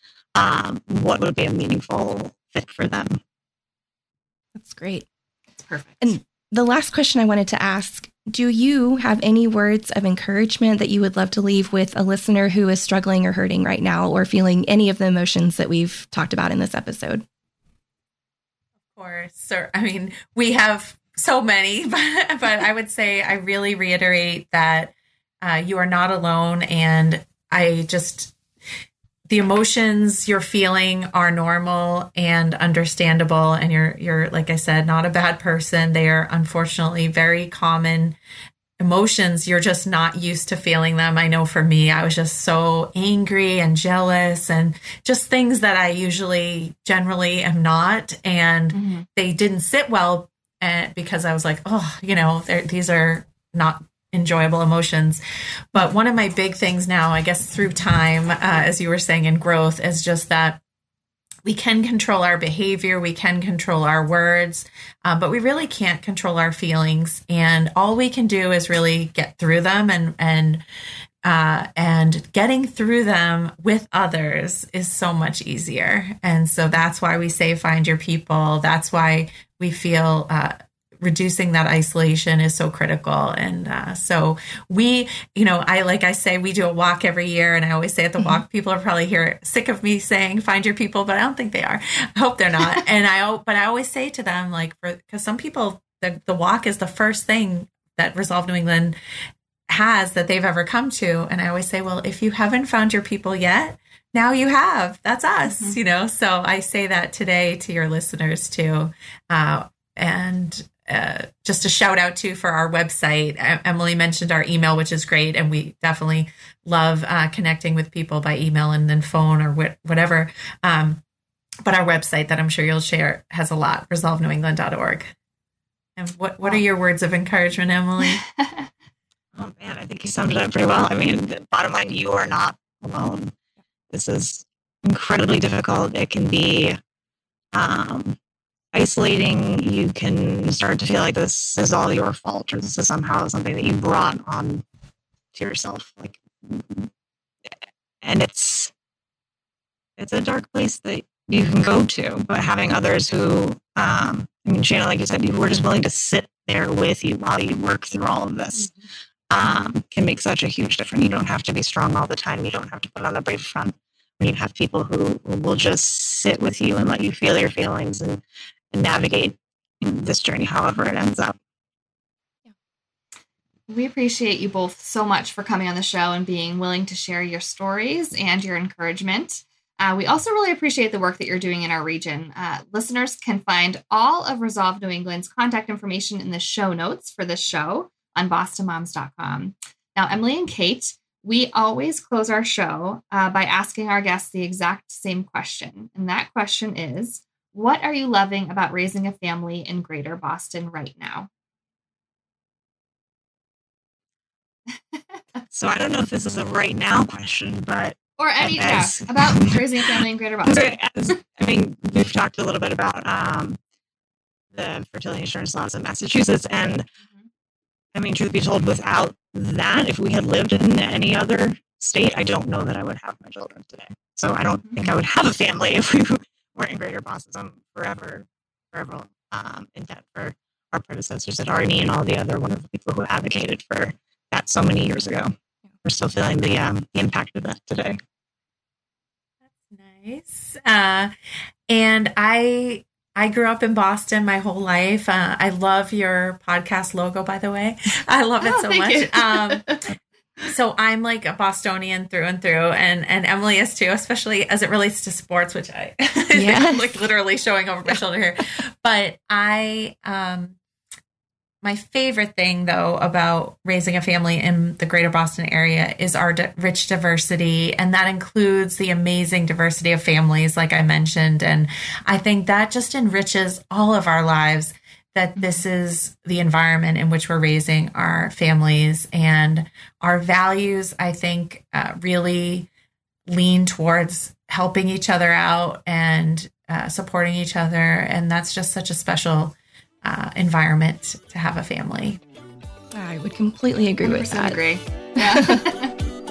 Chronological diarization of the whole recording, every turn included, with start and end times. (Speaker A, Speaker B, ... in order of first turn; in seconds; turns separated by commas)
Speaker A: 0.3-3.2, Speaker B: 4.5-5.0, Speaker C: 5.6-6.2, Speaker B: 6.0-17.2, Speaker D: 18.9-28.3, Speaker D: 29.3-38.2, Speaker D: 38.8-55.2, Speaker C: 48.7-49.1, Speaker D: 55.7-60.6, Speaker D: 61.5-70.6, Speaker D: 71.2-99.0, Speaker D: 99.7-121.0, Speaker C: 105.5-105.8, Speaker D: 121.7-125.1, Speaker D: 126.0-128.2, Speaker C: 128.0-128.7, Speaker A: 129.4-133.4, Speaker A: 133.9-136.8, Speaker A: 137.5-138.2, Speaker A: 138.7-144.6, Speaker A: 145.3-146.9, Speaker A: 147.5-148.7, Speaker A: 150.0-158.7, Speaker A: 159.3-168.2, Speaker A: 168.7-171.4, Speaker C: 173.7-201.3, Speaker C: 204.9-205.2, Speaker A: 205.5-213.6, Speaker C: 208.2-211.2, Speaker A: 214.5-216.9, Speaker A: 217.9-235.3, Speaker C: 224.7-224.9, Speaker A: 235.8-238.0, Speaker D: 239.7-241.1, Speaker D: 241.7-249.7, Speaker C: 248.4-249.9, Speaker D: 250.4-260.6, Speaker B: 256.4-257.0, Speaker D: 261.6-282.7, Speaker C: 275.4-275.6, Speaker D: 283.3-292.2, Speaker B: 292.9-294.6, Speaker C: 294.0-295.9, Speaker B: 295.2-295.7